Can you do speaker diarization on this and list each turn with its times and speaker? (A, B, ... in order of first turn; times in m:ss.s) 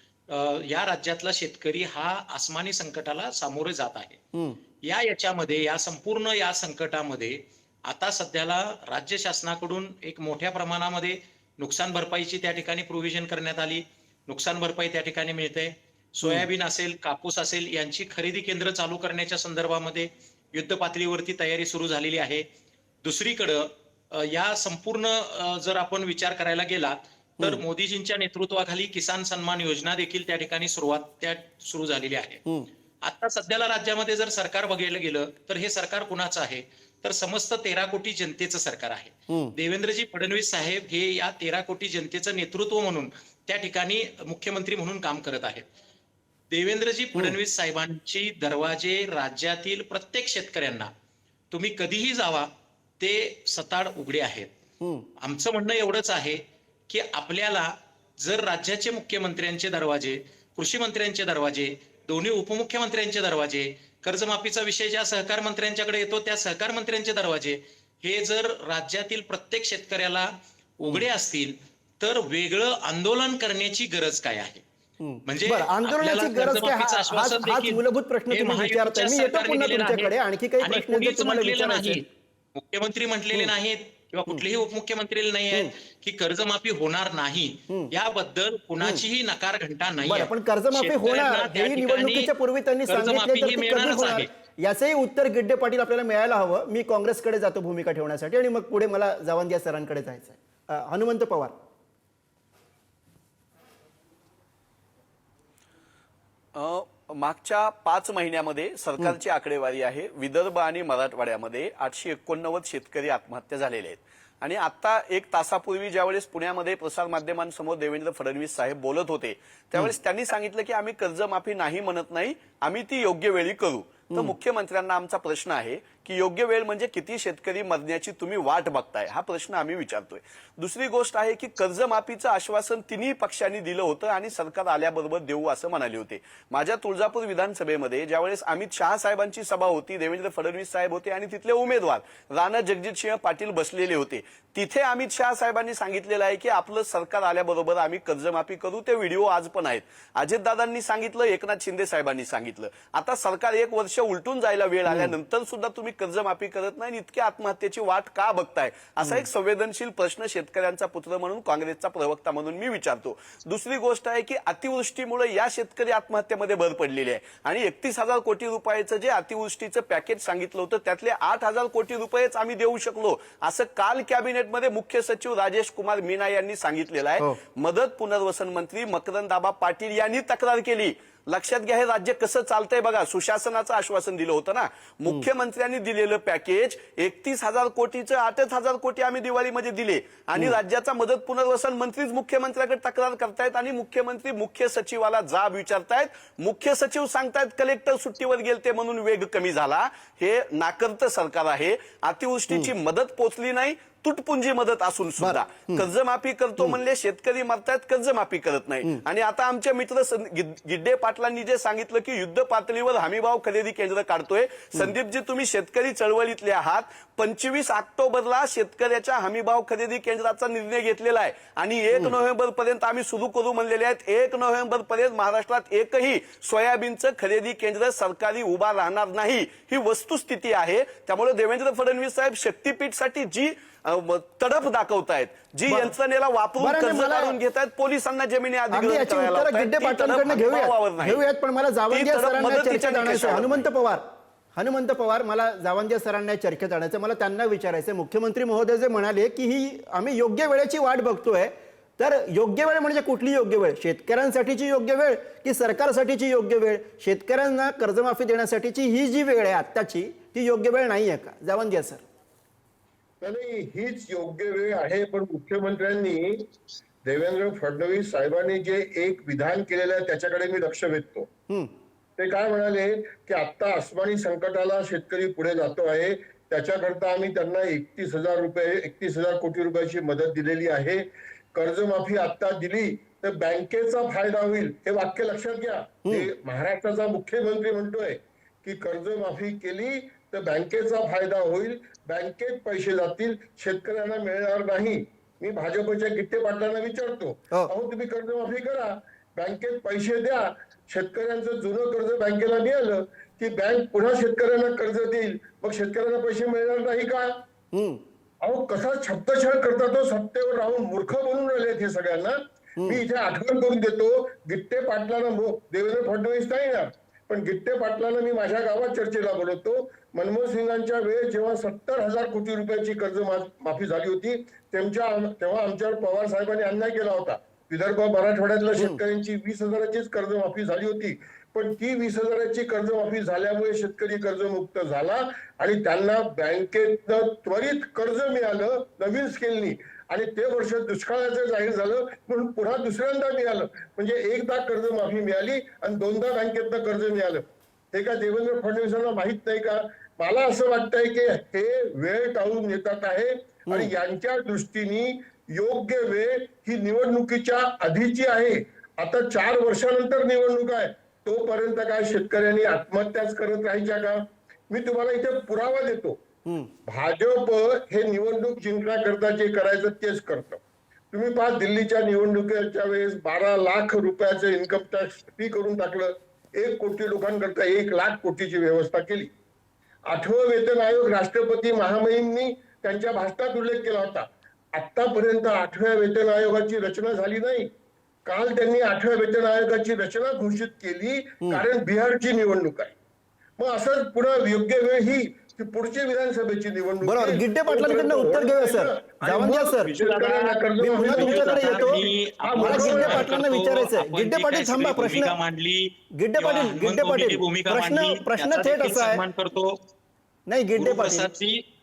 0:00.3-0:04.2 A
0:04.3-0:04.6 B
0:04.8-0:22.5 A
0:16.2-0:16.5 B
0:23.0-0:32.4 A
0:33.0-0:45.7 A
0:39.3-0:39.5 B
0:46.5-0:50.9 A
0:51.5-0:54.5 A
0:54.8-0:55.1 B
0:55.2-1:14.6 A
1:15.0-1:22.0 B
1:15.3-1:22.0 A
1:22.6-1:32.3 A
1:30.1-1:41.6 B
1:32.9-1:34.3 A
1:46.6-4:01.2 C
2:34.9-2:35.1 B
3:25.2-3:25.8 B
3:55.7-3:55.9 B
3:56.6-3:57.4 B
3:58.7-4:22.0 B
4:01.9-4:03.6 C
4:23.2-4:26.5 D
4:27.0-4:31.3 D
4:32.2-5:07.4 D
5:07.7-5:08.0 B
5:08.4-6:06.2 D
6:06.5-6:06.7 B
6:06.9-6:19.3 D
6:20.1-6:27.7 D
6:28.2-6:33.0 D
6:33.6-6:43.3 D
6:37.0-6:39.9 B
6:39.8-6:49.8 A
6:40.8-6:42.0 B
6:42.6-6:45.4 B
6:46.1-6:49.2 B
6:50.5-6:51.3 B
6:50.8-6:51.6 A